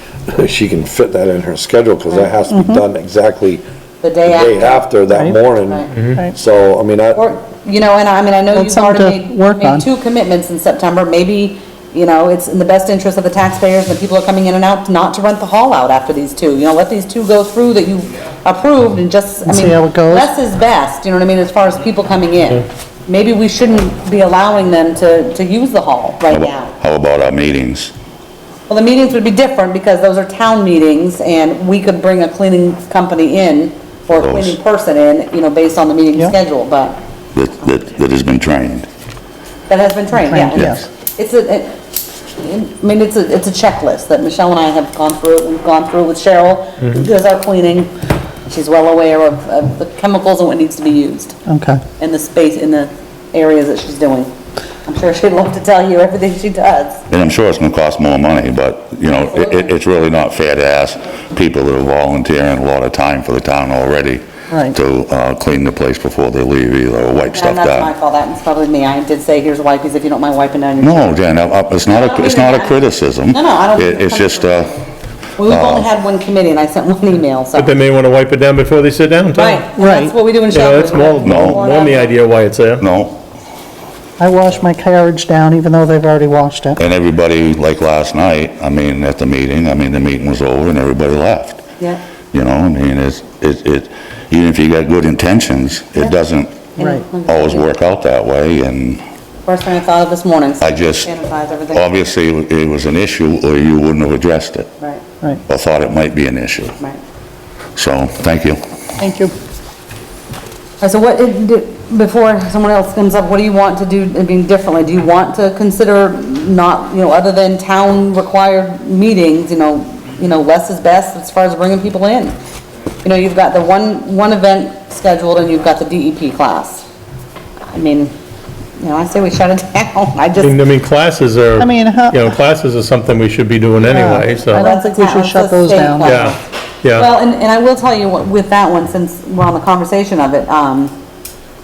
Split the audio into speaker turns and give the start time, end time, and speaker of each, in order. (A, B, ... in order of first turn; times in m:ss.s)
0:00.3-0:03.6 A
0:02.5-0:02.8 B
0:04.0-0:04.9 C
0:04.2-0:07.2 A
0:05.7-0:05.9 C
0:07.1-0:26.7 C
0:08.5-0:09.8 B
0:19.4-0:20.3 B
0:26.3-0:27.9 D
0:28.7-0:37.0 C
0:34.1-0:34.6 D
0:37.3-0:38.9 D
0:39.7-0:41.8 C
0:40.2-0:40.8 B
0:42.4-0:47.9 C
0:46.8-0:47.1 E
0:48.5-0:51.4 C
0:51.5-0:51.8 B
0:52.0-0:54.3 C
0:54.8-0:57.0 C
0:57.1-1:07.9 D
0:59.1-0:59.8 C
1:04.5-1:04.8 B
1:07.3-1:11.2 C
1:10.8-1:14.7 D
1:11.9-1:17.7 C
1:15.4-1:15.9 D
1:17.5-1:19.6 E
1:19.3-1:22.2 C
1:19.8-1:20.2 B
1:20.5-1:22.8 E
1:21.2-1:21.6 D
1:22.8-1:23.2 D
1:24.2-1:26.8 B
1:26.8-1:31.6 D
1:32.3-1:36.6 D
1:36.8-1:37.7 C
1:36.8-1:37.0 B
1:37.2-1:39.0 D
1:39.5-1:41.9 C
1:40.6-1:41.1 D
1:41.7-1:44.7 D
1:45.5-1:46.7 D
1:47.8-1:48.6 D
1:49.0-1:49.3 B
1:50.8-2:02.4 C
2:03.0-2:06.8 C
2:07.7-2:08.1 C
2:08.8-2:10.6 C
2:10.4-2:14.6 E
2:11.6-2:12.3 B
2:13.8-2:16.4 B
2:14.5-2:16.4 C
2:16.0-2:17.1 E
2:16.9-2:20.9 C